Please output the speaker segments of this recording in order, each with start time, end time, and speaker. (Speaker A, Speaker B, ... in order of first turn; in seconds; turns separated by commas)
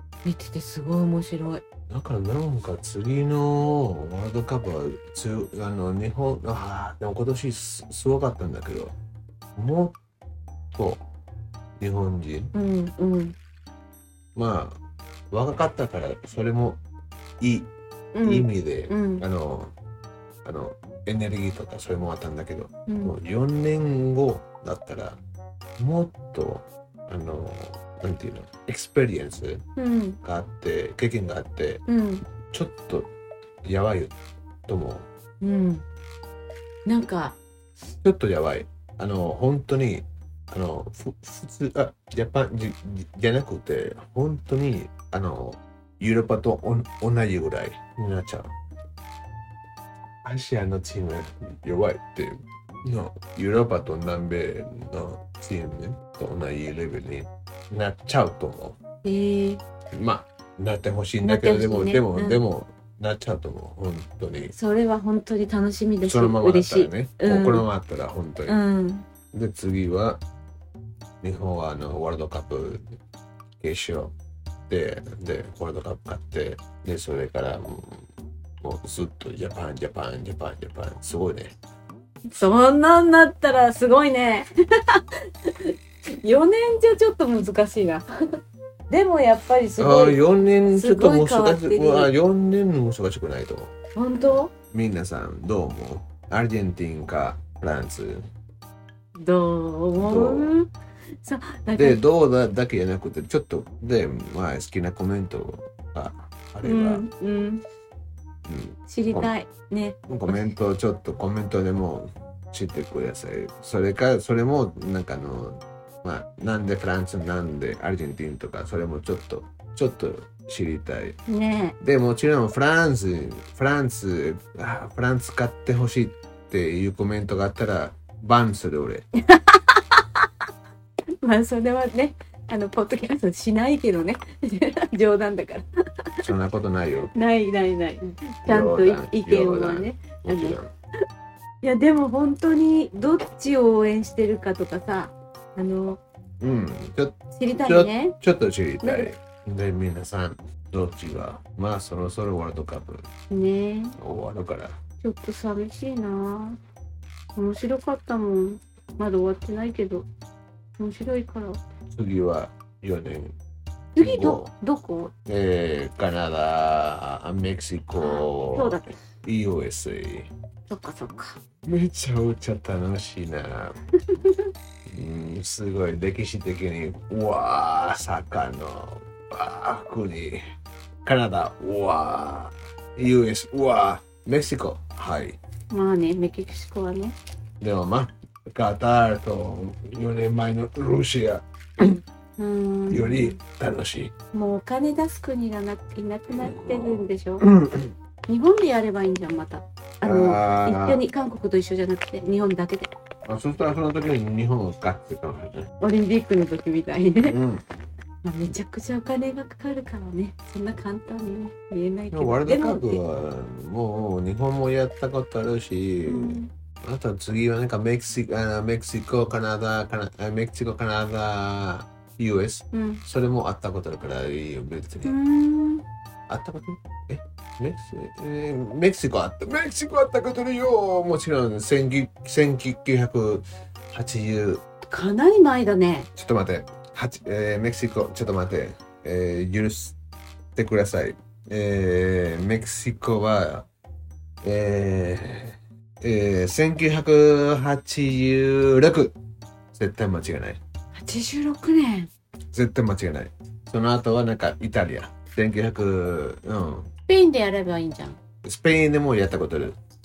Speaker A: 0.2-1.6, Speaker B: 1.9-8.9, Speaker B: 9.6-10.0, Speaker B: 10.7-11.0, Speaker B: 11.8-12.5, Speaker A: 12.5-13.3, Speaker B: 14.3-14.8, Speaker B: 15.3-16.8, Speaker B: 17.4-17.7, Speaker A: 18.1-19.2, Speaker B: 18.2-19.7, Speaker B: 20.4-25.2, Speaker A: 22.9-23.1, Speaker B: 25.8-29.6, Speaker A: 29.8-30.2, Speaker B: 30.2-31.8, Speaker A: 31.9-32.2, Speaker B: 32.5-33.1, Speaker B: 33.6-34.1, Speaker B: 34.7-35.0, Speaker A: 35.4-35.8, Speaker A: 36.9-37.4, Speaker B: 38.0-48.5, Speaker B: 50.2-58.8, Speaker A: 59.0-59.6, Speaker B: 59.9-64.5, Speaker A: 61.2-62.4, Speaker A: 64.5-67.7, Speaker B: 66.0-68.6, Speaker A: 68.5-69.0, Speaker B: 69.3-70.2, Speaker B: 71.2-72.9, Speaker B: 73.6-74.1, Speaker B: 74.7-78.0, Speaker B: 78.6-81.5, Speaker A: 82.3-88.0, Speaker A: 88.9-90.2, Speaker B: 89.8-93.7, Speaker A: 90.7-92.1, Speaker A: 93.9-94.5, Speaker B: 94.7-98.2, Speaker A: 99.2-100.7, Speaker B: 100.0-100.5, Speaker A: 101.2-102.0, Speaker B: 101.7-107.0, Speaker A: 106.6-107.6, Speaker B: 108.4-109.3, Speaker A: 108.9-110.5, Speaker B: 110.1-121.2, Speaker A: 121.3-121.7, Speaker B: 121.8-129.0, Speaker A: 129.3-130.0, Speaker A: 131.2-135.6, Speaker B: 136.2-137.1, Speaker A: 137.1-140.6, Speaker B: 138.4-140.7, Speaker A: 141.6-146.0, Speaker B: 146.4-153.0, Speaker A: 147.3-148.1, Speaker A: 148.8-149.1, Speaker A: 153.3-154.0, Speaker B: 154.0-154.7, Speaker A: 155.0-156.6, Speaker A: 157.3-160.1, Speaker A: 160.8-161.6, Speaker B: 161.9-163.3, Speaker B: 163.9-164.5, Speaker A: 163.9-165.1, Speaker B: 165.3-170.3, Speaker A: 167.9-168.9, Speaker A: 170.7-171.4, Speaker B: 171.6-173.7, Speaker B: 174.9-180.4, Speaker B: 181.0-185.4, Speaker A: 185.7-187.1, Speaker B: 187.6-191.4, Speaker A: 192.4-193.4, Speaker B: 192.9-194.1, Speaker A: 194.3-197.4, Speaker B: 196.3-197.9, Speaker A: 198.3-202.9, Speaker B: 200.0-201.0, Speaker B: 203.2-205.7, Speaker A: 205.8-207.4, Speaker B: 207.2-207.6, Speaker A: 208.2-213.0, Speaker B: 212.1-225.1, Speaker A: 216.1-216.5, Speaker A: 222.7-223.0, Speaker A: 225.0-225.8, Speaker B: 226.3-234.6, Speaker A: 234.9-236.1, Speaker B: 236.2-239.9, Speaker B: 240.5-243.7, Speaker B: 244.4-249.1, Speaker B: 249.7-250.6, Speaker A: 250.9-252.1, Speaker B: 252.5-256.9, Speaker A: 257.1-258.2, Speaker B: 258.4-259.8